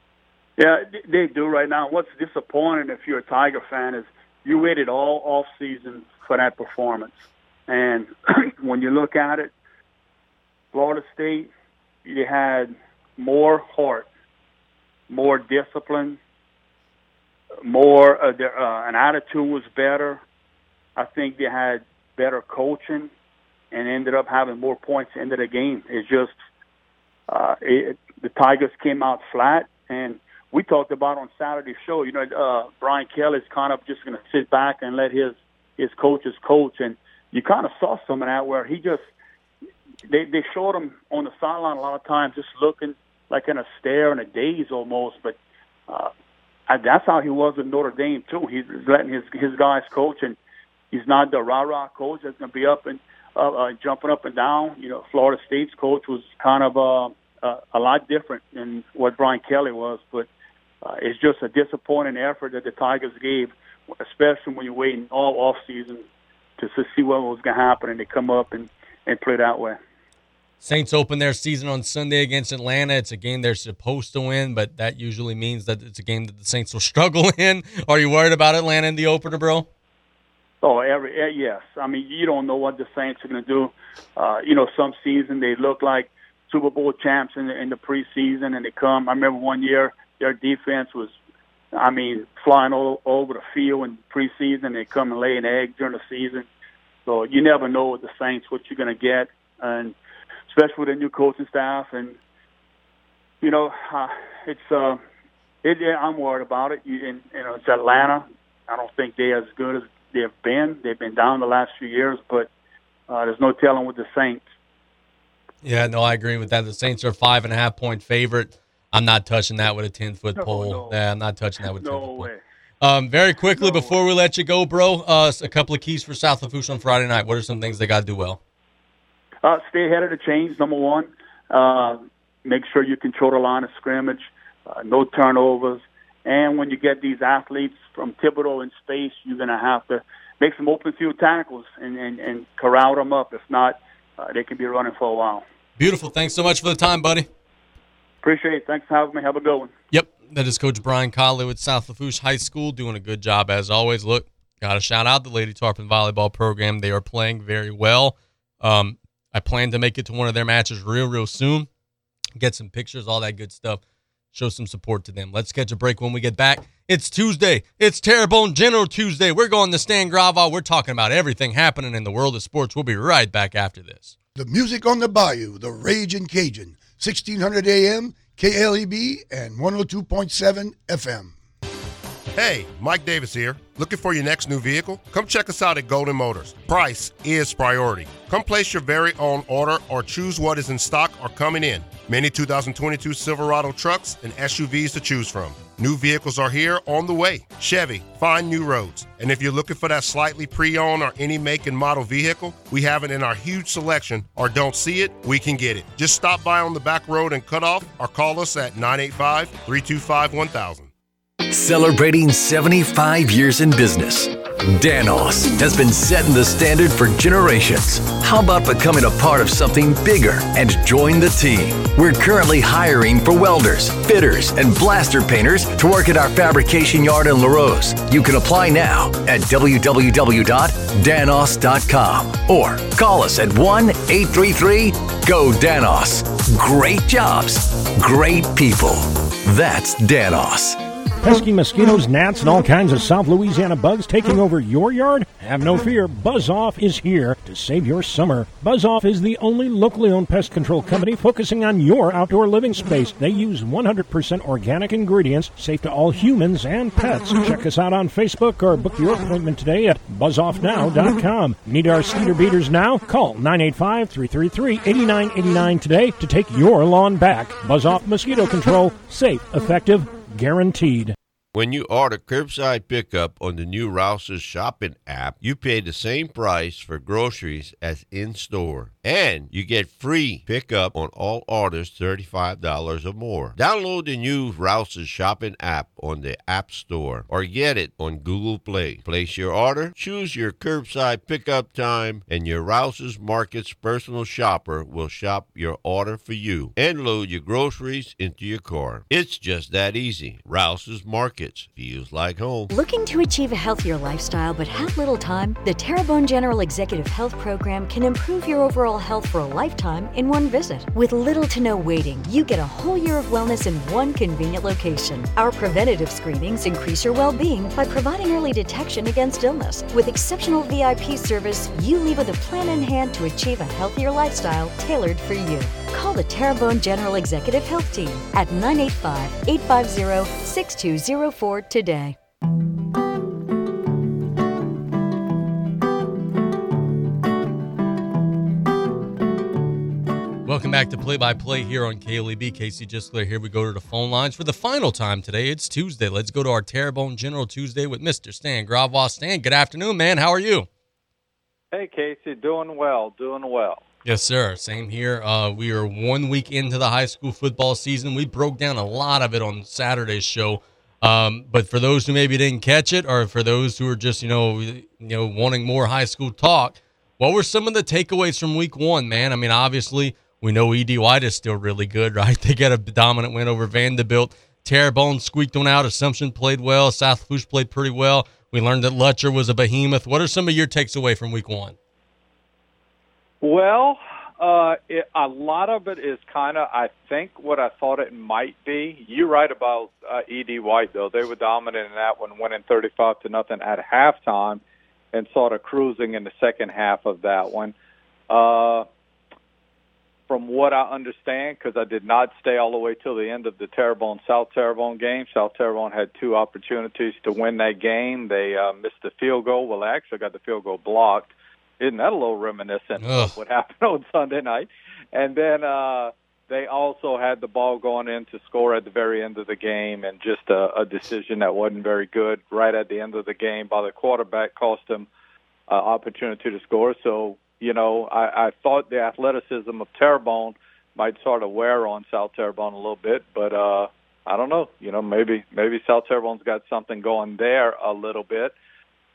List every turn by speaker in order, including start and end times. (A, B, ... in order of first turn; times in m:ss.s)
0:00.6-0:09.5 A
0:10.7-0:11.5 A
0:12.0-0:14.1 A
0:15.1-0:16.2 A
0:17.6-0:20.2 A
0:21.0-0:23.1 A
0:23.7-0:26.4 A
0:27.3-0:39.1 A
0:40.1-0:46.1 A
0:46.7-0:50.4 A
0:50.9-1:00.3 A
1:00.8-1:06.1 A
1:06.6-1:09.8 A
1:10.6-1:19.7 B
1:20.6-1:31.2 A
1:31.7-1:36.5 A
1:37.1-1:40.0 A
1:40.5-1:42.2 A
1:43.4-1:45.0 A
1:45.6-1:52.5 A
1:53.1-1:54.4 A
1:55.6-2:02.3 B
2:00.4-2:01.0 A
2:01.6-2:02.4 A
2:02.8-2:08.4 B
2:03.6-2:03.9 A
2:09.4-2:25.4 A
2:25.8-2:27.3 B
2:28.2-2:29.7 A
2:29.9-2:41.7 B
2:42.4-2:43.8 B
2:44.3-2:54.2 B
2:54.4-3:01.3 C
3:02.4-3:30.9 D
3:31.5-4:00.8 E
4:01.2-4:31.2 F
4:31.5-5:02.7 G
5:02.7-5:32.2 H
5:40.5-5:50.7 B
5:51.7-5:53.8 I
5:54.0-6:21.8 B
6:23.4-6:34.6 I
6:35.1-6:37.8 I
6:38.3-6:38.9 I
6:40.3-7:05.1 I
6:53.0-6:53.4 B
7:05.7-7:18.5 I